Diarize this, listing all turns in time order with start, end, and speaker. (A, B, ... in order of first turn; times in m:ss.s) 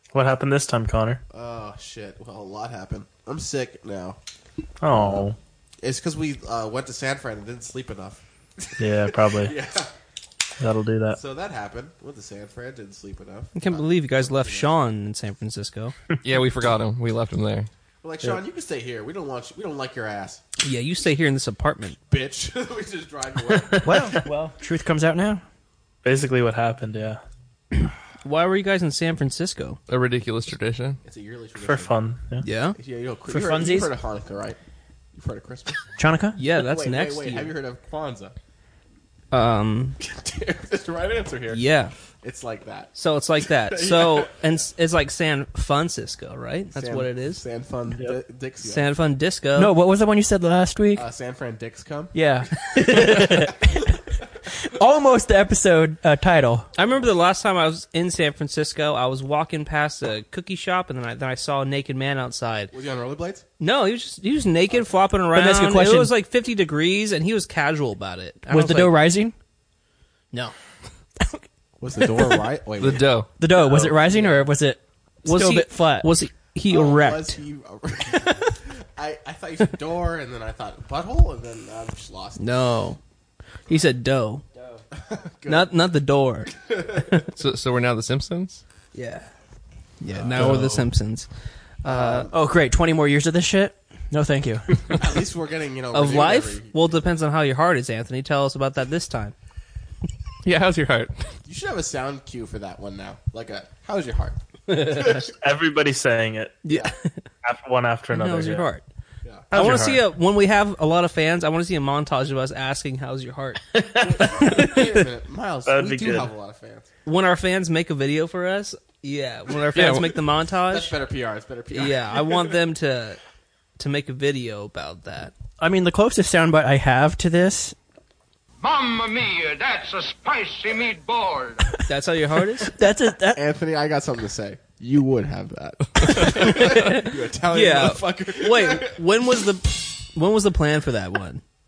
0:00.1-0:01.2 A
0:01.3-0:04.2 B
0:04.8-0:05.4 A
0:04.9-0:05.3 B
0:05.8-0:09.9 B
0:08.8-0:09.6 A
0:10.6-0:11.2 A
0:11.1-0:14.8 B
0:13.6-0:15.9 C
0:16.2-0:17.7 D
0:18.0-0:20.4 B
0:20.6-0:22.0 C
0:22.1-0:24.2 B
0:23.5-0:24.2 A
0:23.8-0:25.4 E
0:26.0-0:27.2 A
0:27.8-0:29.8 C
0:29.9-0:31.0 D
0:31.0-0:32.0 B
0:31.6-0:32.5 A
0:32.4-0:32.8 C
0:32.8-0:34.6 B
0:33.3-0:33.9 E
0:35.2-0:35.8 B
0:36.0-0:36.4 E
0:36.4-0:37.5 C
0:36.5-0:38.4 B
0:39.3-0:40.0 C
0:40.0-0:41.6 B
0:41.5-0:41.9 C
0:42.2-0:42.9 B
0:43.0-0:47.4 C
0:43.4-0:44.3 B
0:46.8-0:48.9 B
0:48.6-0:49.7 C
0:49.6-0:51.1 E
0:50.9-0:52.2 B
0:52.1-0:54.0 E
0:52.8-0:53.4 C
0:54.6-0:56.7 E
0:56.8-1:02.7 C
1:02.7-1:03.5 B
1:03.6-1:08.9 C
1:05.3-1:06.1 E
1:08.5-1:09.4 E
1:11.8-1:14.0 B
1:12.0-1:12.4 E
1:12.8-1:13.3 D
1:13.4-1:16.1 E
1:15.3-1:17.4 C
1:16.7-1:22.5 B
1:22.4-1:23.0 C
1:23.7-1:24.4 C
1:24.9-1:25.7 B
1:25.5-1:27.2 C
1:26.6-1:27.1 B
1:27.3-1:28.6 D
1:28.9-1:29.3 C
1:30.0-1:31.3 C
1:30.1-1:30.6 B
1:30.4-1:30.9 D
1:31.8-1:32.3 C
1:31.8-1:32.4 B
1:32.3-1:35.0 E
1:34.9-1:37.0 B
1:35.9-1:39.3 C
1:40.4-1:41.3 D
1:41.5-1:45.2 B
1:44.7-1:45.2 C
1:44.8-1:46.7 A
1:46.6-1:47.1 C
1:46.7-1:47.0 B
1:47.4-1:48.7 A
1:48.1-1:48.8 C
1:49.5-1:50.1 A
1:49.5-1:53.6 C
1:53.7-1:54.5 A
1:54.0-1:56.9 B
1:54.2-1:54.9 C
1:55.7-1:56.3 A
1:57.1-2:01.0 C
1:59.7-2:00.0 D
2:00.7-2:02.2 B
2:01.7-2:03.2 C
2:03.8-2:05.3 C
2:05.6-2:07.8 E
2:08.6-2:11.7 F
2:11.9-2:12.7 C
2:12.7-2:13.4 E
2:13.3-2:19.2 B
2:16.1-2:21.4 C